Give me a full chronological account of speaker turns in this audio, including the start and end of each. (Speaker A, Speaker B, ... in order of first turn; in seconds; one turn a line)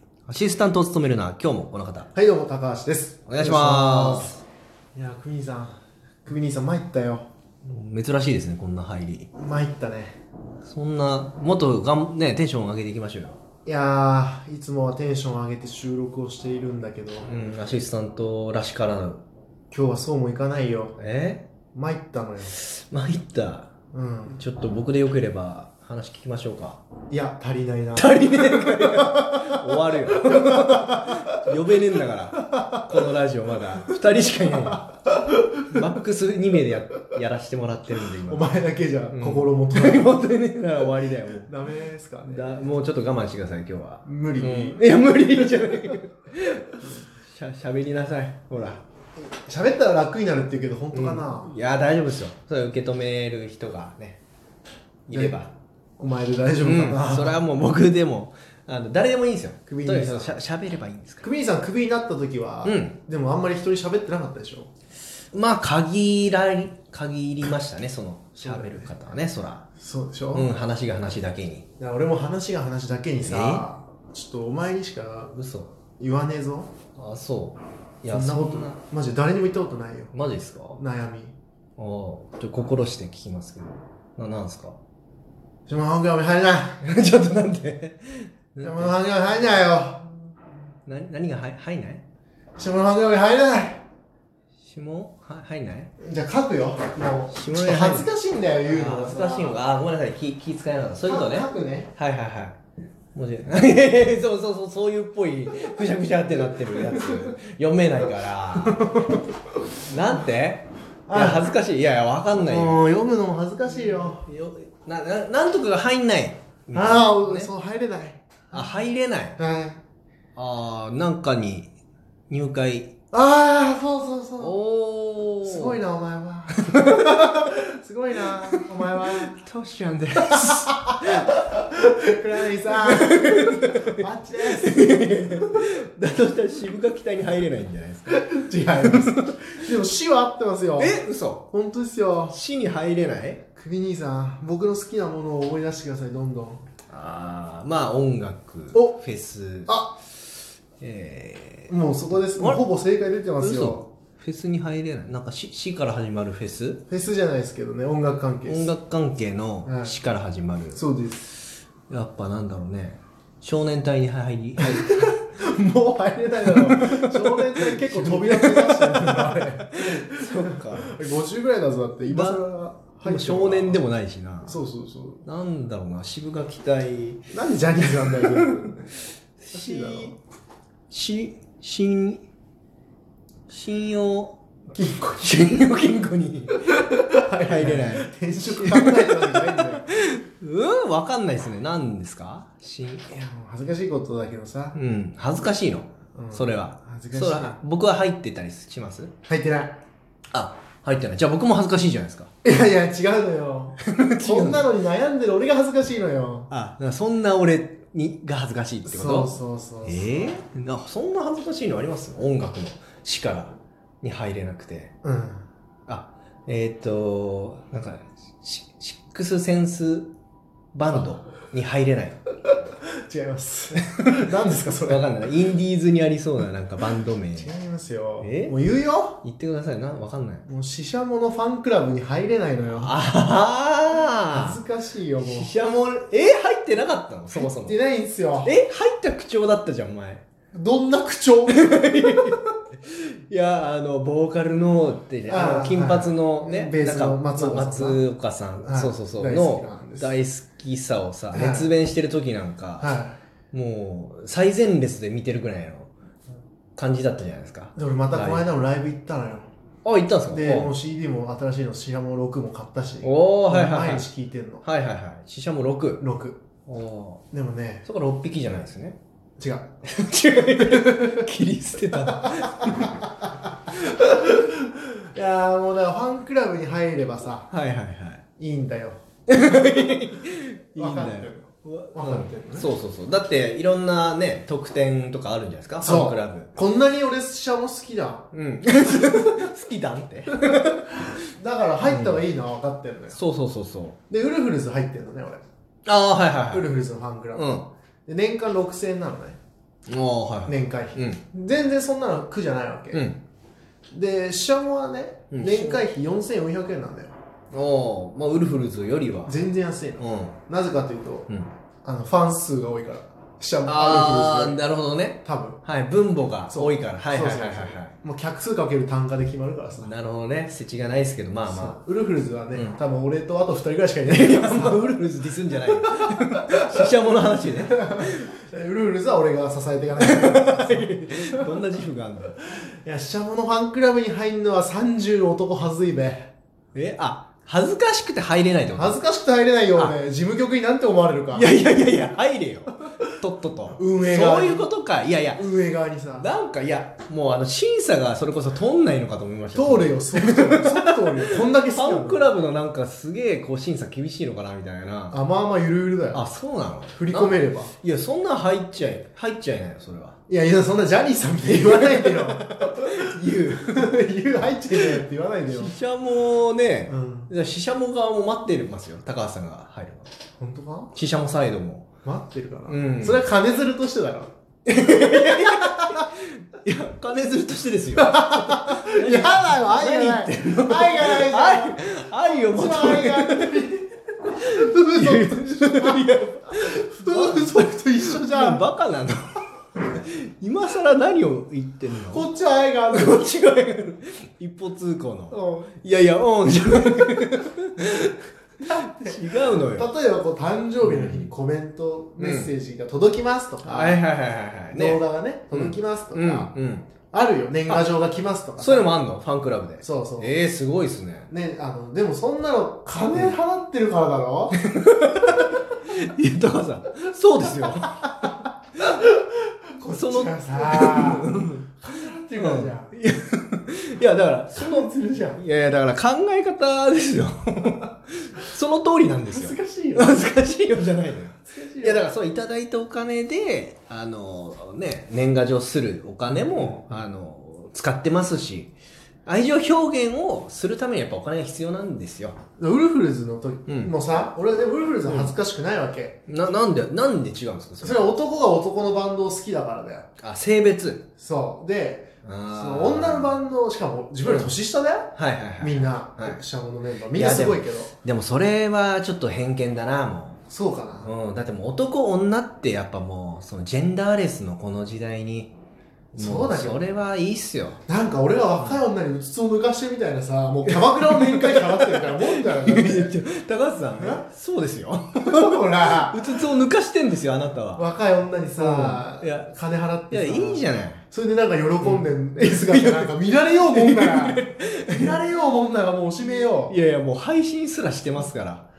Speaker A: 0.3-2.1
Speaker B: 2.1-4.4
Speaker A: 3.3-4.4
Speaker B: 4.9-7.2
Speaker A: 7.6-9.3
Speaker B: 9.3-10.2
Speaker A: 10.6-13.4
Speaker B: 13.7-17.3
Speaker A: 17.2-19.2
Speaker B: 19.7-21.0
Speaker A: 21.0-21.5
Speaker B: 21.7-22.6
Speaker A: 22.5-23.7
Speaker B: 23.9-24.4
Speaker A: 24.3-26.8
Speaker B: 27.1-31.4
Speaker A: 27.9-34.9
Speaker B: 32.4-32.8
Speaker B: 34.5-35.9
Speaker A: 35.7-38.5
Speaker B: 38.2-40.1
Speaker A: 39.1-41.5
Speaker B: 41.5-42.6
Speaker A: 42.2-48.8
Speaker B: 44.0-44.8
Speaker B: 49.2-51.5
Speaker A: 50.9-54.2
Speaker A: 55.1-55.5
Speaker B: 55.1-55.4
Speaker B: 56.0-57.4
Speaker A: 56.6-61.3
Speaker B: 59.7-60.4
Speaker B: 61.2-64.7
Speaker A: 62.6-63.0
Speaker A: 65.3-69.6
Speaker B: 68.4-68.9
Speaker B: 69.8-70.5
Speaker A: 70.3-71.7
Speaker B: 71.8-75.3
Speaker A: 73.2-73.6
Speaker A: 75.3-75.7
Speaker B: 76.0-76.7
Speaker A: 77.0-78.8
Speaker B: 78.1-80.1
Speaker A: 80.1-80.8
Speaker B: 80.8-81.3
Speaker A: 81.8-84.8
Speaker B: 85.7-86.8
Speaker A: 86.8-88.9
Speaker B: 88.6-90.1
Speaker A: 90.9-92.0
Speaker B: 92.6-93.8
Speaker A: 94.6-95.9
Speaker B: 96.0-99.6
Speaker A: 97.3-98.1
Speaker A: 98.7-102.6
Speaker B: 101.1-101.9
Speaker A: 103.1-109.0
Speaker B: 108.6-109.2
Speaker A: 109.8-112.8
Speaker B: 111.1-111.4
Speaker B: 112.3-114.2
Speaker A: 113.7-117.5
Speaker B: 116.7-118.8
Speaker A: 118.5-119.4
Speaker B: 119.4-119.8
Speaker A: 120.3-121.7
Speaker A: 122.3-122.9
Speaker B: 123.1-124.5
Speaker A: 124.4-125.8
Speaker B: 125.4-129.4
Speaker A: 126.7-127.0
Speaker A: 129.2-131.3
Speaker B: 130.4-135.4
Speaker A: 132.7-138.2
Speaker B: 138.1-142.4
Speaker A: 138.8-139.5
Speaker A: 140.8-141.5
Speaker A: 142.3-143.4
Speaker B: 143.6-146.6
Speaker A: 146.9-149.8
Speaker B: 149.7-149.9
Speaker A: 150.8-151.7
Speaker B: 151.7-153.8
Speaker A: 152.3-152.6
Speaker A: 153.4-156.8
Speaker B: 156.9-158.7
Speaker A: 158.4-160.8
Speaker B: 159.6-159.9
Speaker B: 160.7-161.3
Speaker A: 161.9-165.2
Speaker B: 164.6-173.8
Speaker A: 166.5-171.0
Speaker A: 172.1-172.4
Speaker A: 173.0-174.6
Speaker B: 174.4-175.2
Speaker A: 175.2-177.3
Speaker B: 177.3-178.8
Speaker A: 178.0-178.5
Speaker A: 179.4-180.2
Speaker B: 179.5-180.2
Speaker A: 180.9-182.2
Speaker A: 183.5-184.4
Speaker B: 184.7-185.6
Speaker A: 185.2-193.1
Speaker B: 186.9-189.9
Speaker B: 193.1-194.8
Speaker A: 194.7-199.1
Speaker B: 196.1-197.6
Speaker B: 199.3-199.8
Speaker A: 200.3-202.3
Speaker B: 202.4-206.5
Speaker A: 203.8-204.7
Speaker A: 206.5-214.9
Speaker B: 208.8-210.3
Speaker B: 215.0-215.4
Speaker A: 215.9-220.1
Speaker A: 220.7-222.2
Speaker B: 223.0-225.0
Speaker A: 224.0-227.5
Speaker B: 227.4-229.2
Speaker A: 228.2-228.6
Speaker A: 229.2-230.4
Speaker B: 230.5-232.9
Speaker A: 232.8-234.6
Speaker B: 234.3-235.5
Speaker A: 235.2-237.8
Speaker B: 237.3-238.5
Speaker A: 238.4-240.2
Speaker B: 240.5-242.4
Speaker A: 241.5-252.9
Speaker B: 245.3-248.0
Speaker B: 248.6-250.1
Speaker B: 251.3-251.7
Speaker B: 252.8-253.2
Speaker A: 253.5-255.9
Speaker A: 256.8-258.5
Speaker B: 257.8-259.5
Speaker A: 259.8-260.7
Speaker B: 260.3-264.6
Speaker A: 263.0-264.0
Speaker A: 264.6-266.0
Speaker B: 266.0-266.4
Speaker A: 266.6-267.2
Speaker B: 267.3-267.8
Speaker A: 267.8-269.0
Speaker B: 269.4-269.7
Speaker A: 269.9-273.1
Speaker B: 270.6-271.2
Speaker B: 272.2-273.1
Speaker B: 273.7-277.5
Speaker A: 277.5-278.2
Speaker B: 278.4-279.0
Speaker A: 279.3-286.5
Speaker B: 280.7-282.7
Speaker B: 285.8-288.3
Speaker A: 288.3-291.2
Speaker B: 289.0-289.5
Speaker B: 290.3-293.2
Speaker A: 291.8-292.2
Speaker A: 293.1-294.0
Speaker B: 294.1-295.4
Speaker A: 295.9-296.7
Speaker B: 296.5-299.4
Speaker A: 297.3-297.7
Speaker A: 299.9-301.2
Speaker B: 300.4-303.0
Speaker A: 302.9-303.2
Speaker B: 303.9-307.1
Speaker A: 305.3-305.8
Speaker A: 307.5-309.4
Speaker B: 309.2-311.3
Speaker A: 310.0-310.4
Speaker B: 311.8-314.6
Speaker A: 313.6-317.9
Speaker B: 315.2-315.6
Speaker B: 316.5-319.9
Speaker A: 319.8-321.8
Speaker B: 321.5-324.9
Speaker A: 322.5-322.8
Speaker A: 324.1-328.3
Speaker B: 326.2-326.9
Speaker B: 327.6-331.5
Speaker A: 330.0-332.4
Speaker B: 332.5-336.3
Speaker A: 336.7-339.0
Speaker B: 338.8-341.5
Speaker A: 341.3-345.4
Speaker B: 343.7-344.7
Speaker B: 345.4-346.3
Speaker A: 346.1-355.2
Speaker B: 349.5-352.2
Speaker B: 355.1-356.2
Speaker A: 356.1-360.2
Speaker B: 356.9-357.7
Speaker B: 360.3-365.7
Speaker A: 361.4-363.9
Speaker A: 364.8-370.1
Speaker B: 366.9-367.3
Speaker B: 370.4-370.9
Speaker A: 370.9-371.9
Speaker B: 372.0-376.1
Speaker A: 372.7-373.2
Speaker A: 374.7-383.6
Speaker B: 377.9-388.6
Speaker A: 384.3-392.3
Speaker B: 392.1-393.3
Speaker A: 392.9-399.9
Speaker B: 395.3-395.7
Speaker B: 398.6-404.0
Speaker A: 400.8-401.3
Speaker A: 402.2-402.5
Speaker A: 403.6-406.9
Speaker B: 404.7-406.5
Speaker B: 407.1-408.9
Speaker A: 408.6-411.3
Speaker B: 409.8-410.3
Speaker B: 411.3-414.6
Speaker A: 414.6-418.5
Speaker B: 418.8-419.2
Speaker B: 419.8-421.3
Speaker A: 419.9-421.7
Speaker B: 421.8-422.9
Speaker A: 422.4-438.7
Speaker B: 424.5-425.4
Speaker B: 429.2-430.3
Speaker B: 431.5-432.1
Speaker B: 436.5-436.9
Speaker A: 439.2-442.4
Speaker B: 442.6-446.2
Speaker A: 443.7-443.9
Speaker A: 445.1-445.3
Speaker A: 446.3-448.1
Speaker B: 447.8-450.1
Speaker A: 450.2-451.0
Speaker B: 451.2-457.9
Speaker A: 452.2-453.4
Speaker A: 454.2-454.5
Speaker A: 455.1-456.4
Speaker A: 457.1-460.4
Speaker B: 460.5-461.1
Speaker A: 461.0-465.5
Speaker B: 466.1-466.8
Speaker A: 466.1-467.8
Speaker B: 467.9-473.1
Speaker A: 470.6-477.8
Speaker B: 474.0-474.2
Speaker B: 475.2-476.4
Speaker B: 477.8-486.7
Speaker A: 478.6-479.5
Speaker A: 480.1-481.0
Speaker A: 481.8-485.2
Speaker A: 486.7-488.6